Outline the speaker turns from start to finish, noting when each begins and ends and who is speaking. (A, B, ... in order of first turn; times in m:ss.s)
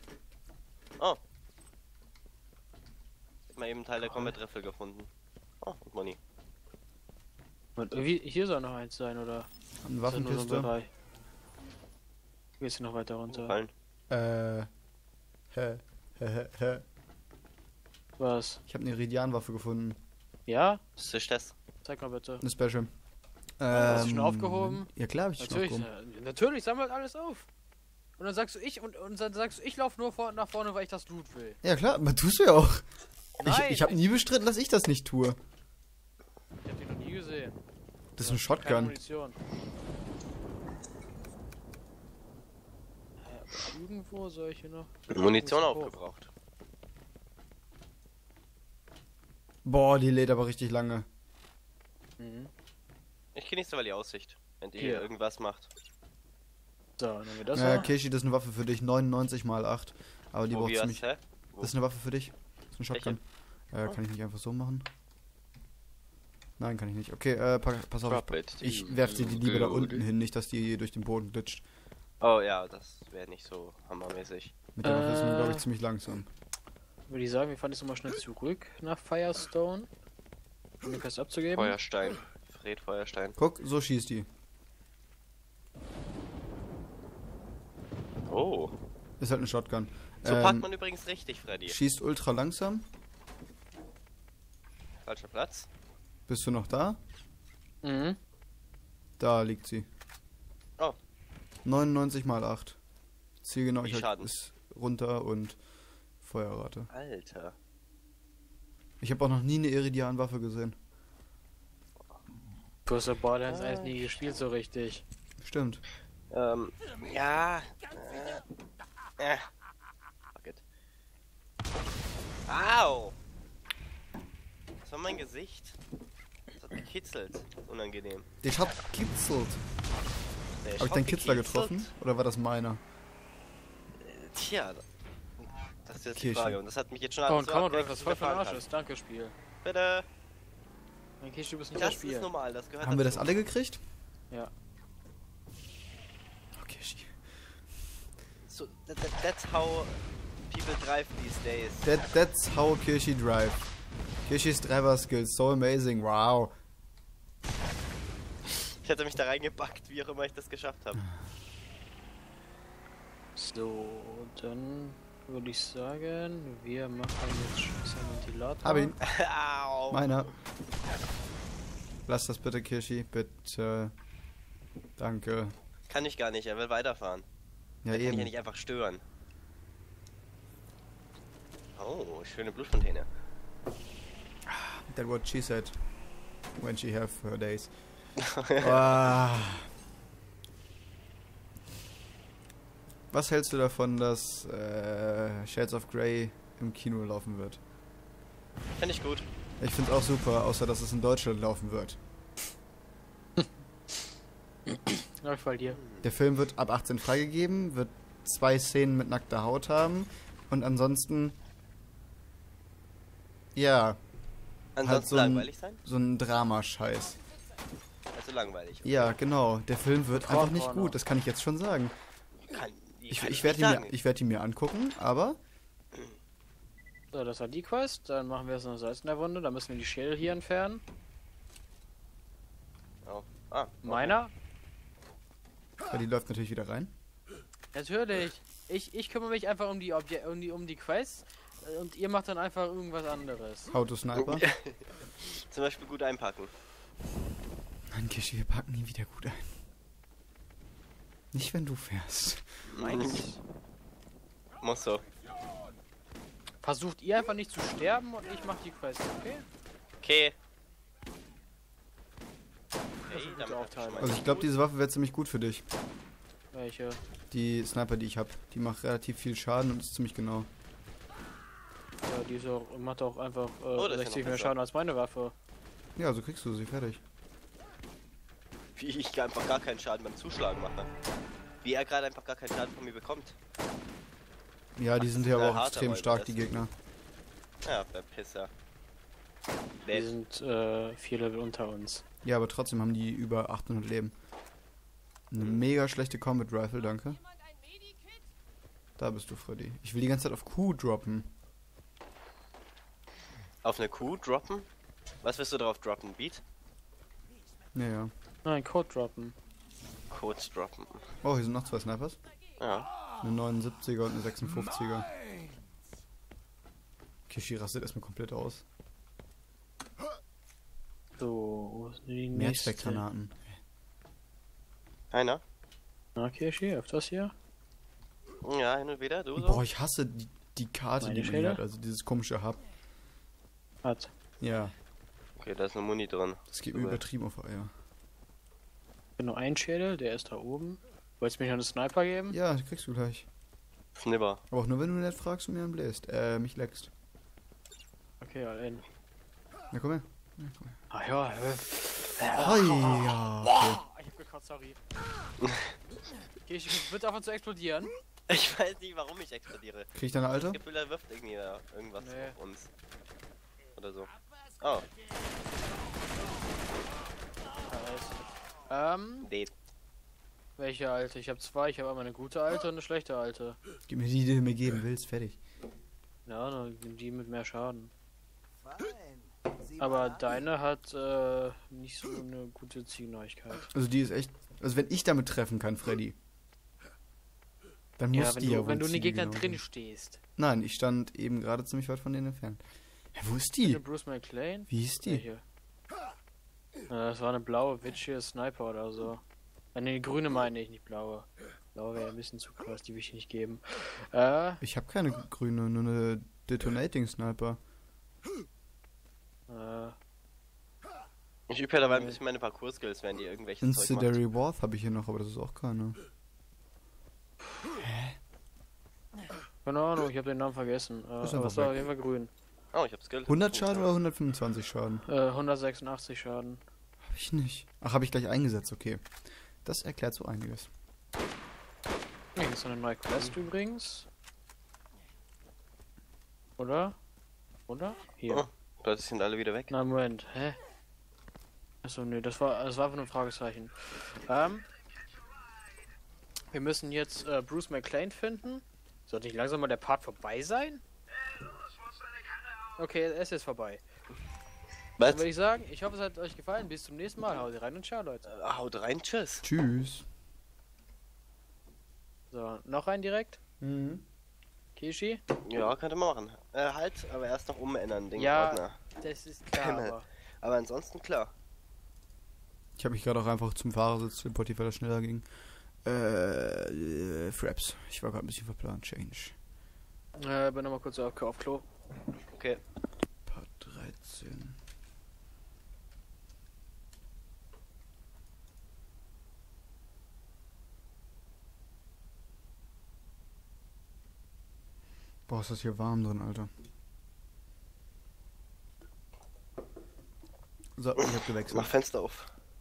0:03.5-0:05.1 A
0:05.6-0:06.2 A
0:07.8-0:09.5 B
0:09.8-0:10.7 C
0:10.0-0:10.9 B
0:12.6-0:13.6 B
0:13.3-0:13.7 A
0:14.1-0:14.7 C
0:15.5-0:16.8 C
0:18.2-0:18.6 B
0:18.7-0:20.0 C
0:20.5-0:20.8 B
0:21.0-0:21.5 A
0:21.8-0:22.4 B
0:22.4-0:22.9 C
0:23.6-0:25.9 C
0:23.7-0:27.5 B
0:23.8-0:24.1 A
0:28.2-0:31.6 B
0:31.6-0:32.8 C
0:33.4-0:34.0 B
0:33.4-0:35.4 C
0:36.6-0:37.6 B
0:38.2-0:39.0 C
0:38.2-0:39.4 B
0:43.2-0:46.0 B
0:45.1-0:46.3 A
0:49.6-0:51.0 C
0:52.2-0:52.5 B
0:53.3-0:55.7 A
0:54.8-0:55.1 B
0:57.0-0:57.9 B
0:57.5-1:01.0 C
1:00.5-1:01.7 A
1:01.6-1:04.9 C
1:06.6-1:11.6 C
1:08.0-1:10.0 A
1:12.2-1:14.5 A
1:14.8-1:16.3 C
1:14.8-1:15.7 B
1:17.1-1:19.9 B
1:20.8-1:21.8 B
1:21.5-1:23.4 A
1:23.4-1:24.3 C
1:28.3-1:28.7 A
1:29.2-1:30.7 C
1:30.2-1:31.8 A
1:31.7-1:32.8 C
1:35.0-1:35.7 A
1:36.3-1:37.0 C
1:37.8-1:38.2 B
1:39.2-1:39.8 C
1:41.6-1:42.8 C
1:43.4-1:45.6 C
1:43.8-1:44.3 A
1:46.2-1:46.9 C
1:46.9-1:47.6 A
1:49.0-1:50.8 C
1:52.8-1:55.0 B
1:53.5-1:54.2 A
1:55.4-1:55.8 C
1:56.3-1:58.4 A
1:59.2-1:59.5 A
2:00.3-2:00.6 A
2:02.5-2:03.1 A
2:04.8-2:05.8 A
2:06.5-2:08.3 A
2:08.4-2:09.6 C
2:10.6-2:11.9 A
2:10.8-2:12.8 C
2:14.0-2:14.8 A
2:15.8-2:18.6 A
2:16.1-2:16.6 C
2:17.2-2:19.4 B
2:19.6-2:20.1 A
2:21.2-2:22.3 B
2:21.7-2:23.4 A
2:22.8-2:23.8 C
2:26.6-2:27.2 C
2:28.5-2:31.9 A
2:31.8-2:33.7 C
2:34.2-2:36.5 C
2:38.8-2:41.0 A
2:41.0-2:41.2 C
2:43.4-2:49.0 B
2:48.6-2:49.0 C
2:49.0-2:50.0 A
2:49.9-2:50.3 C
2:52.0-2:53.9 C
2:55.0-2:55.5 C
2:55.9-2:57.2 A
2:57.8-2:58.3 C
2:57.9-2:59.0 A
3:01.8-3:03.1 A
3:04.5-3:05.8 C
3:06.6-3:07.7 C
3:08.4-3:08.8 A
3:08.6-3:09.7 C
3:13.1-3:17.6 C
3:18.8-3:19.2 A
3:19.6-3:22.0 C
3:24.7-3:25.8 B
3:26.0-3:31.4 C
3:33.5-3:34.0 C
3:34.8-3:35.8 A
3:34.8-3:37.2 C
3:38.1-3:39.1 A
3:38.8-3:41.9 C
3:40.2-3:41.0 B
3:42.5-3:44.0 A
3:43.1-3:45.4 C
3:47.1-3:50.8 B
3:53.0-3:54.2 A
3:53.8-3:54.3 B
3:55.8-3:56.9 C
3:57.7-4:03.7 B
4:03.7-4:04.4 C
4:04.1-4:06.5 A
4:07.9-4:09.6 C
4:11.3-4:13.0 C
4:12.7-4:13.3 A
4:12.8-4:13.4 B
4:14.6-4:15.0 A
4:16.6-4:19.4 B
4:20.0-4:20.4 A
4:23.0-4:24.5 A
4:23.1-4:24.2 B
4:24.0-4:25.6 C
4:26.5-4:27.0 B
4:27.3-4:30.5 C
4:32.0-4:35.3 B
4:33.7-4:34.5 A
4:36.0-4:37.0 C
4:38.8-4:40.9 A
4:41.6-4:43.4 A
4:44.8-4:46.7 C
4:45.0-4:46.7 A
4:47.6-4:48.5 A
4:49.8-4:50.1 A
4:49.9-4:52.0 B
4:52.2-4:54.1 C
4:55.3-4:57.2 C
4:55.4-4:55.6 A
4:59.0-5:01.3 C
5:03.6-5:04.7 A
5:05.2-5:06.4 A
5:07.7-5:08.1 C
5:08.4-5:09.4 B
5:10.1-5:11.0 A
5:11.2-5:12.2 C
5:12.6-5:12.9 A
5:13.2-5:15.1 C
5:17.3-5:18.6 C
5:21.2-5:23.0 B
5:22.3-5:23.5 C
5:25.1-5:25.4 A
5:26.2-5:27.3 B
5:28.4-5:29.6 A
5:29.4-5:32.6 C
5:31.0-5:31.6 B
5:33.8-5:34.1 B
5:34.4-5:34.7 C
5:35.4-5:37.0 A
5:36.5-5:37.7 C
5:39.2-5:42.4 B
5:42.3-5:43.3 C
5:44.0-5:44.4 A
5:44.5-5:46.9 C
5:48.2-5:48.8 B
5:49.7-5:50.8 C
5:50.9-5:54.8 B
5:52.3-5:53.8 C
5:55.4-5:55.7 A
5:56.4-5:57.9 B
5:58.3-6:02.7 A
5:59.9-6:00.6 C
6:02.0-6:02.4 B
6:03.8-6:04.9 A
6:07.7-6:09.3 B
6:09.2-6:09.5 A
6:10.6-6:13.6 B
6:13.9-6:15.4 C
6:16.2-6:17.9 B
6:19.8-6:23.7 B
6:23.7-6:26.1 C
6:28.0-6:29.6 C
6:28.1-6:30.2 B
6:30.4-6:32.6 C
6:33.1-6:33.8 C
6:33.6-6:35.4 B
6:34.7-6:35.2 C
6:36.9-6:39.2 B
6:39.7-6:44.6 B
6:44.6-6:47.6 C
6:49.5-6:50.0 B
6:51.5-6:54.2 A
6:51.8-6:52.2 B
6:53.6-6:56.0 C
6:57.7-6:58.2 C
6:59.6-7:02.3 B
7:01.2-7:01.9 C
7:02.7-7:03.9 A
7:03.3-7:05.0 C
7:05.0-7:06.6 B
7:07.0-7:09.0 C
7:09.6-7:10.7 C
7:12.3-7:14.1 B
7:16.6-7:17.0 B
7:17.7-7:18.5 B
7:18.3-7:19.7 A
7:19.7-7:20.6 B
7:21.8-7:24.6 B
7:26.5-7:30.8 B
7:32.8-7:33.8 B
7:35.0-7:35.3 A
7:35.0-7:38.2 B
7:38.3-7:39.4 A
7:39.4-7:40.0 C
7:42.3-7:43.4 B
7:43.6-7:44.0 C
7:44.8-7:45.2 B
7:45.4-7:48.8 A
7:48.1-7:50.0 B
7:49.5-7:51.3 A
7:52.8-7:55.3 C
7:55.8-7:59.3 C
8:00.1-8:01.6 B
8:02.3-8:02.6 A
8:03.3-8:04.6 C
8:15.3-8:16.5 C
8:20.8-8:21.7 C
8:21.0-8:22.3 A